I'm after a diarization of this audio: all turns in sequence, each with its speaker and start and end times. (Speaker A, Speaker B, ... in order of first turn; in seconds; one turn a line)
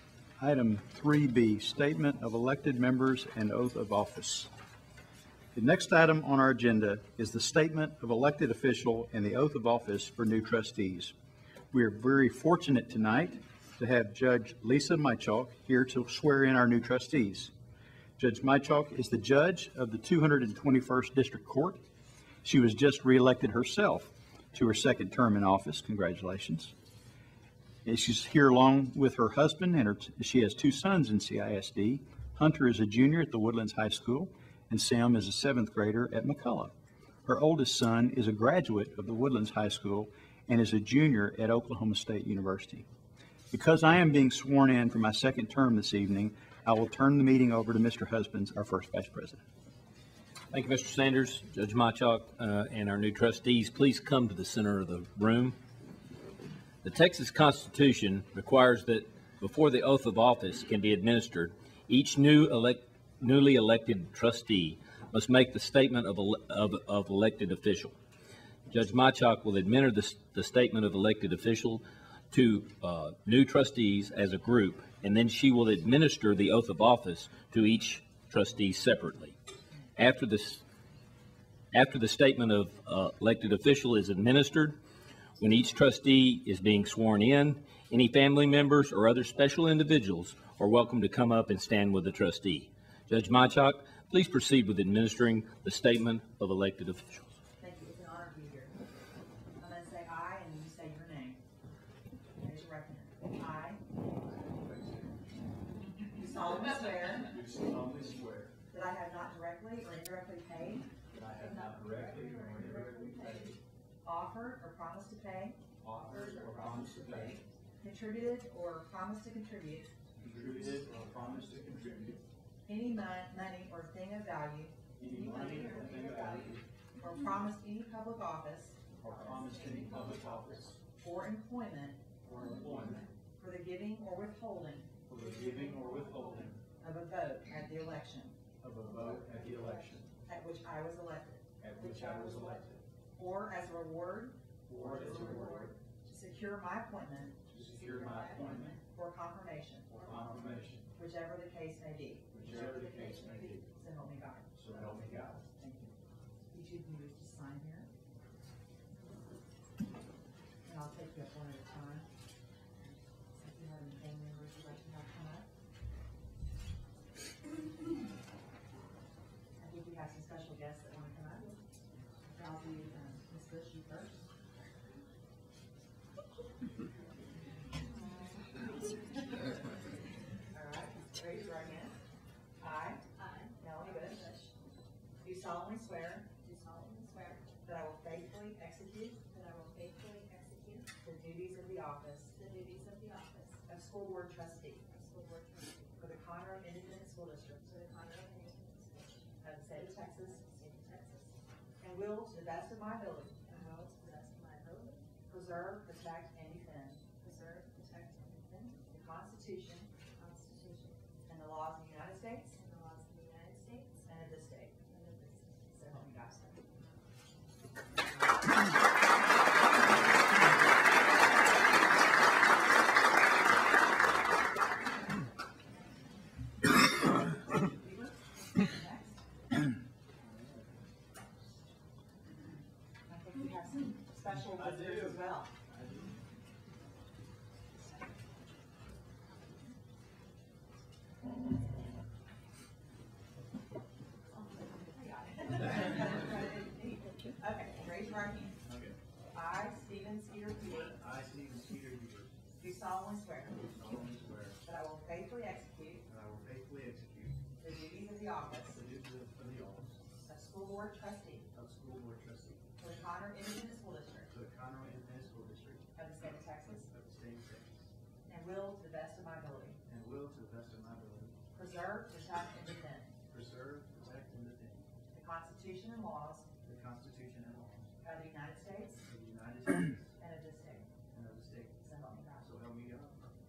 Speaker A: 0.4-4.5
Speaker A: 5.5-11.1
Speaker A: 11.7-17.5
Speaker A: 18.2-21.8
Speaker A: 22.4-26.7
Speaker A: 27.8-36.7
Speaker A: 37.2-42.9
Speaker A: 43.5-49.4
Speaker B: 50.5-55.5
Speaker B: 56.8-67.9
Speaker B: 68.7-79.3
Speaker B: 80.0-80.6
Speaker B: 81.7-84.7
Speaker B: 85.4-97.3
Speaker C: 97.6-98.7
Speaker C: 99.6-101.4
Speaker C: 102.4-103.8
Speaker C: 106.0-107.4
Speaker A: 107.3-108.5
Speaker C: 108.7-110.9
Speaker A: 111.1-113.5
Speaker D: 111.4-113.5
Speaker E: 111.8-113.0
Speaker C: 112.5-113.0
Speaker C: 114.0-119.9
Speaker A: 115.8-117.4
Speaker A: 120.2-122.2
Speaker C: 122.7-132.1
Speaker A: 125.0-126.6
Speaker A: 129.0-130.8
Speaker A: 132.2-133.0
Speaker C: 133.3-134.9
Speaker A: 135.1-136.6
Speaker C: 136.8-138.4
Speaker A: 138.6-140.1
Speaker C: 140.2-150.0
Speaker A: 141.6-142.8
Speaker A: 144.7-145.7
Speaker A: 147.6-148.7
Speaker A: 149.9-150.8
Speaker E: 150.2-150.4
Speaker C: 150.9-155.9
Speaker A: 152.4-153.6
Speaker A: 154.6-155.4
Speaker C: 156.5-157.9
Speaker C: 160.6-162.1
Speaker C: 163.3-165.5
Speaker C: 169.6-171.6
Speaker C: 172.3-174.2
Speaker C: 180.5-182.0
Speaker C: 182.6-183.0
Speaker D: 183.1-184.5
Speaker C: 183.6-184.2
Speaker C: 185.2-186.3
Speaker D: 186.4-187.5
Speaker C: 187.6-189.2
Speaker D: 189.3-190.9
Speaker C: 191.0-192.3
Speaker D: 192.3-193.6
Speaker C: 193.7-194.8
Speaker D: 194.9-196.0
Speaker C: 196.0-197.7
Speaker D: 197.6-199.3
Speaker C: 199.4-200.4
Speaker D: 200.0-201.4
Speaker C: 201.8-203.5
Speaker D: 203.4-205.1
Speaker C: 205.3-207.1
Speaker D: 207.1-208.7
Speaker C: 208.5-209.9
Speaker D: 210.1-211.0
Speaker C: 211.3-212.6
Speaker D: 212.5-214.1
Speaker C: 214.0-214.8
Speaker D: 214.8-216.6
Speaker C: 215.8-216.6
Speaker C: 227.5-229.2
Speaker C: 233.1-235.5
Speaker E: 234.6-235.1
Speaker E: 235.7-236.1
Speaker C: 244.9-248.6
Speaker C: 249.3-251.0
Speaker E: 251.0-252.3
Speaker C: 252.6-253.7
Speaker E: 253.7-254.5
Speaker C: 254.6-256.1
Speaker E: 256.1-257.3
Speaker C: 257.6-258.8
Speaker E: 258.7-259.9
Speaker C: 260.2-261.5
Speaker E: 261.5-262.6
Speaker C: 262.8-264.3
Speaker E: 264.3-265.8
Speaker C: 265.9-266.9
Speaker E: 266.9-267.7
Speaker C: 268.2-269.8
Speaker E: 269.9-271.3
Speaker C: 271.5-273.1
Speaker E: 273.3-274.8
Speaker C: 275.1-276.4
Speaker E: 276.6-277.9
Speaker C: 278.0-279.0
Speaker E: 279.1-280.1
Speaker C: 280.2-280.9
Speaker E: 281.1-281.7
Speaker C: 281.8-282.5
Speaker E: 282.4-283.2